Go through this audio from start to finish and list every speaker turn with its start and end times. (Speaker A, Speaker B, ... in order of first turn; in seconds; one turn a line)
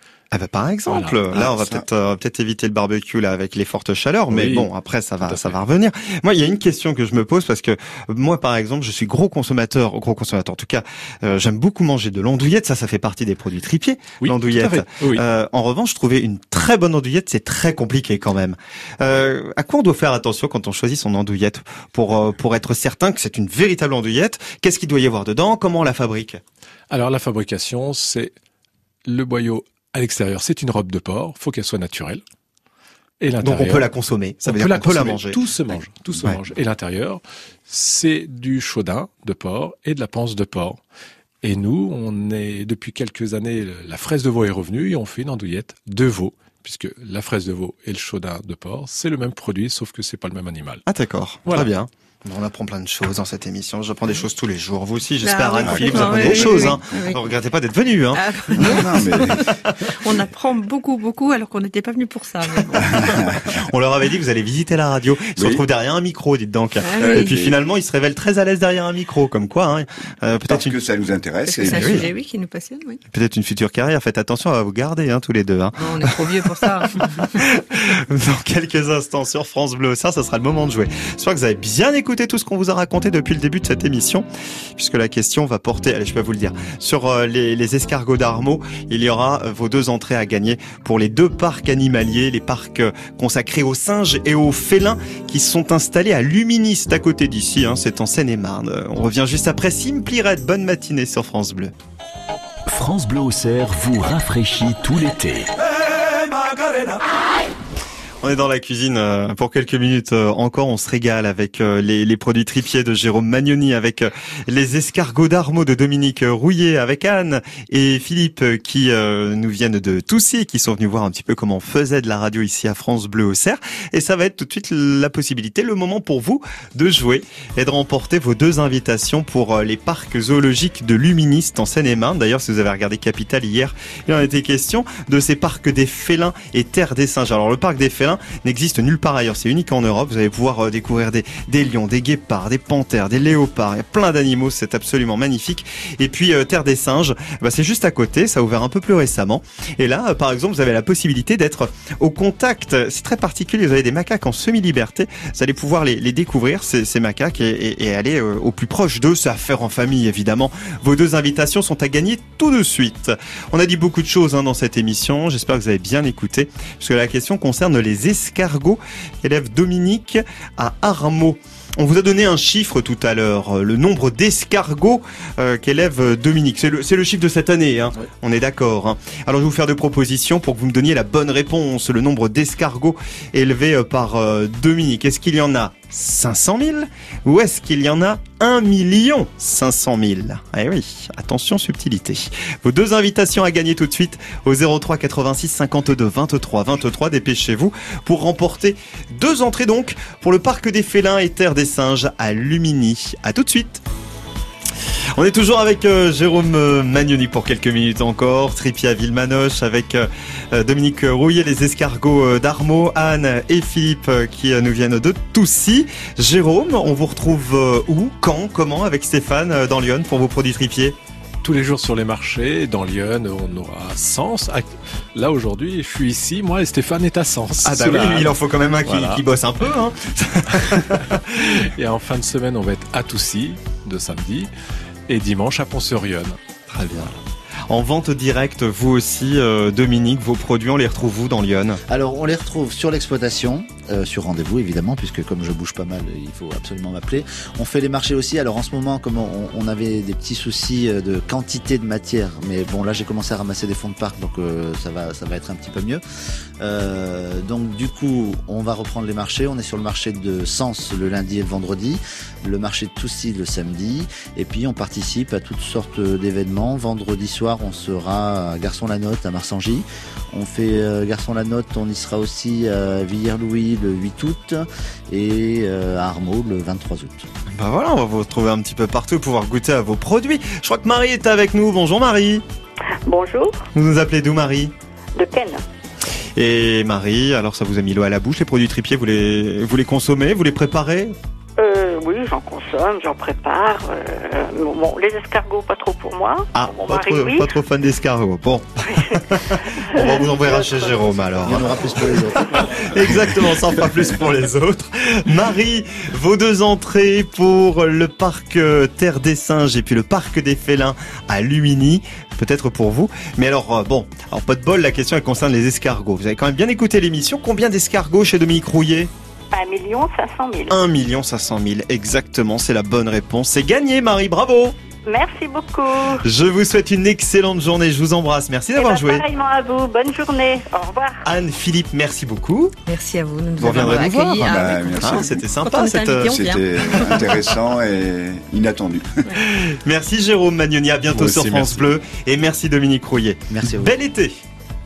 Speaker A: 0.3-26.4
Speaker B: 0.9-1.2
Speaker C: 1.3-1.9
Speaker B: 4.3-4.7
Speaker B: 5.2-5.6
Speaker B: 14.2-15.2
Speaker B: 26.9-28.3
Speaker B: 29.1-32.2
Speaker B: 33.2-33.9
Speaker A: 33.4-35.4
Speaker B: 34.5-40.8
Speaker B: 41.4-50.8
Speaker A: 50.9-58.8
Speaker B: 51.5-51.7
Speaker D: 55.2-57.3
Speaker C: 55.7-56.8
Speaker D: 58.1-63.3
Speaker C: 58.5-59.6
Speaker A: 59.4-59.9
Speaker C: 62.8-63.7
Speaker A: 63.5-70.8
Speaker C: 65.4-65.6
Speaker D: 66.8-67.4
Speaker C: 67.0-67.6
Speaker C: 70.5-72.1
Speaker D: 71.5-73.0
Speaker A: 71.6-72.1
Speaker A: 73.1-101.7
Speaker D: 75.8-77.5
Speaker E: 102.7-105.5
Speaker A: 105.8-107.0
Speaker A: 108.2-203.8
Speaker A: 205.2-221.0
Speaker B: 221.4-229.2
Speaker A: 227.6-231.2
Speaker B: 230.5-234.5
Speaker B: 235.1-236.4
Speaker A: 236.7-237.1
Speaker B: 236.9-237.2
Speaker A: 237.7-241.8
Speaker F: 241.9-256.0
Speaker F: 256.6-277.3
Speaker A: 277.5-282.4
Speaker G: 283.1-283.7
Speaker A: 283.8-284.7
Speaker G: 285.2-285.6
Speaker A: 286.4-291.1
Speaker G: 291.6-297.6
Speaker A: 296.5-319.1
Speaker G: 298.9-301.3
Speaker F: 301.4-303.3
Speaker G: 319.5-320.8
Speaker A: 320.7-324.8
Speaker G: 325.1-326.2
Speaker A: 326.2-329.2
Speaker G: 328.8-331.2
Speaker A: 331.2-332.8
Speaker D: 332.9-337.5
Speaker A: 333.6-336.4
Speaker C: 334.0-335.4
Speaker C: 336.3-339.2
Speaker A: 339.4-344.4
Speaker B: 341.1-341.9
Speaker F: 343.5-343.9